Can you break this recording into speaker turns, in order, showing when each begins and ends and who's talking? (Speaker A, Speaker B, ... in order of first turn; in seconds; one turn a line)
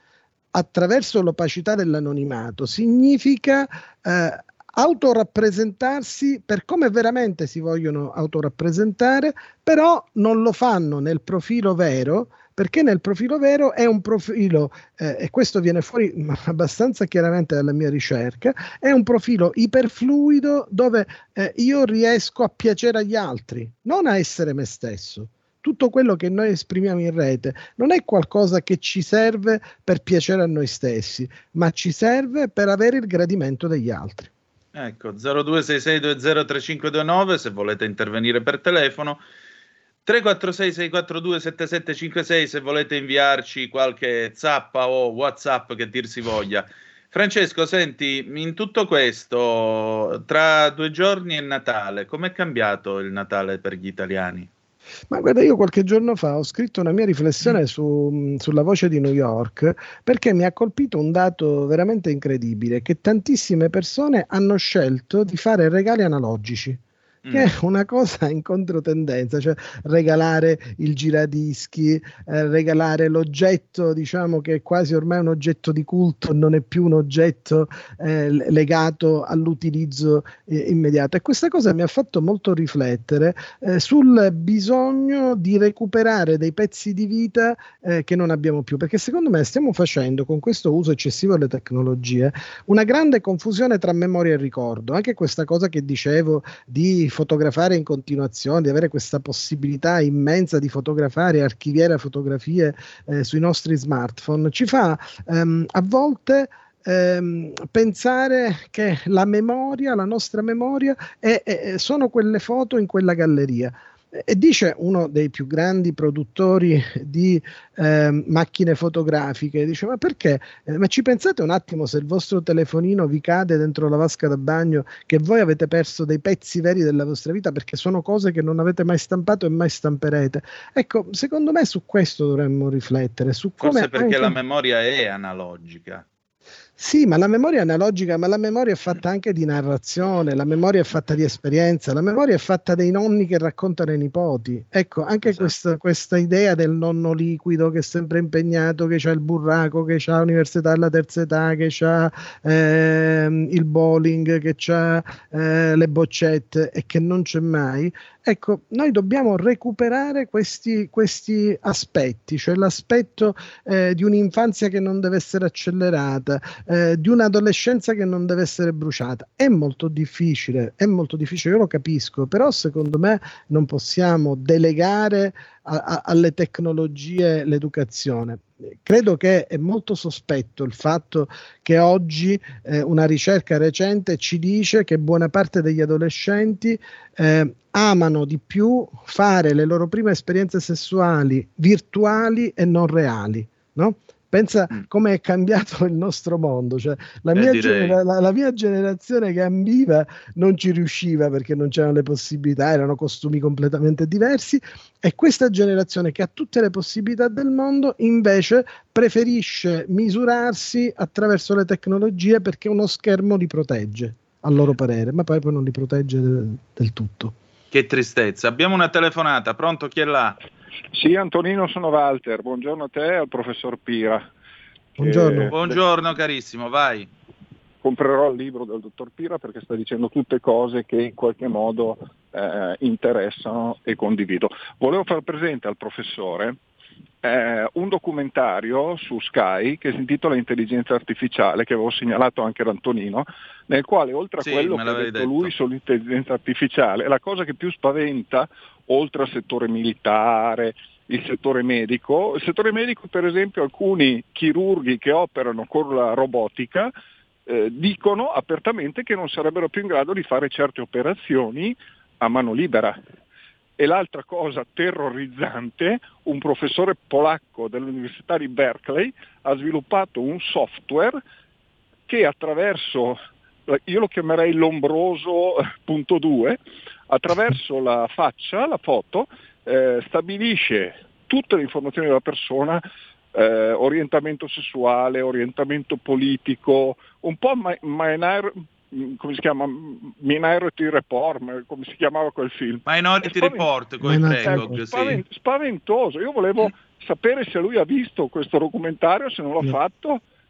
Speaker A: 0.5-34.3
Speaker B: 34.8-39.2
Speaker B: 40.0-54.5
Speaker A: 55.1-66.8
Speaker B: 67.2-67.5
Speaker A: 67.3-134.4
Speaker B: 133.6-136.1
Speaker A: 136.8-217.3
Speaker B: 145.2-145.5
Speaker B: 197.3-198.0
Speaker B: 217.7-220.4
Speaker C: 220.9-224.3
Speaker C: 225.0-225.8
Speaker A: 225.0-225.6
Speaker B: 225.5-227.1
Speaker C: 227.8-236.6
Speaker C: 237.2-256.9
Speaker B: 244.4-245.5
Speaker C: 257.5-263.0
Speaker C: 263.8-271.2
Speaker C: 272.1-282.8
Speaker C: 283.3-300.2
Speaker B: 292.9-295.2
Speaker A: 294.0-294.8